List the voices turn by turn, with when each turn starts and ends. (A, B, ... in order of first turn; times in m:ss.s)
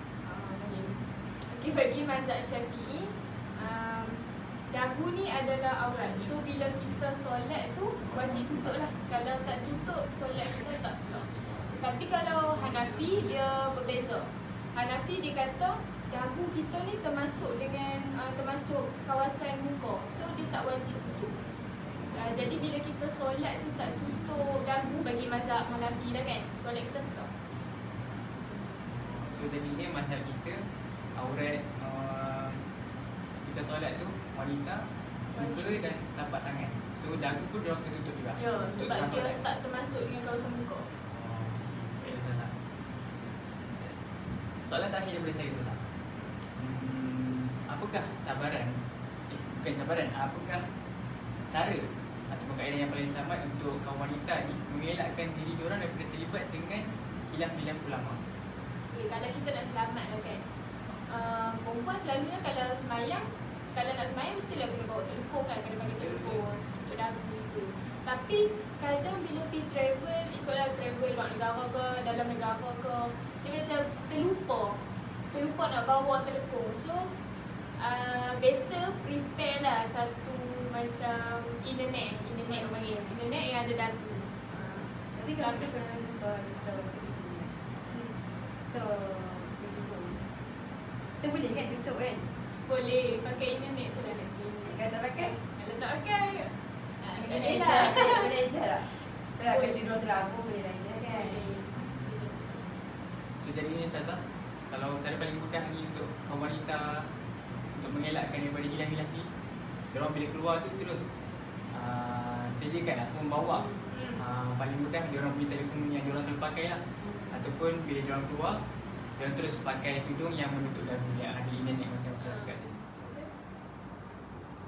0:00.2-0:21.4 A
0:22.1-0:27.3 A
0:29.3-0:30.6 B
0:31.1-0:32.6 B
0:33.4-0:39.4 B
0:35.3-0:35.9 A
0:38.4-0:40.9 A
0:41.1-0:42.6 B
0:44.6-0:45.8 B
0:46.5-0:50.7 B
0:51.5-0:58.2 B
0:58.9-1:00.4 A
1:01.1-1:17.1 A
1:05.8-1:06.6 B
1:17.8-1:25.7 A
1:22.4-1:23.2 C
1:25.1-1:27.6 C
1:27.9-1:28.2 A
1:28.7-1:30.2 C
1:31.2-1:32.3 C
1:32.6-1:34.4 A
1:34.4-1:35.4 C
1:35.4-1:39.8 A
1:37.1-1:41.4 C
1:41.1-1:42.8 A
1:41.7-1:42.0 B
1:43.4-1:47.1 B
1:47.7-1:49.3 B
1:49.9-1:51.1 B
1:51.7-1:58.6 B
1:53.6-1:53.9 C
1:53.9-1:54.2 A
1:57.0-1:57.4 C
1:59.2-2:02.8 B
2:02.2-2:03.3 A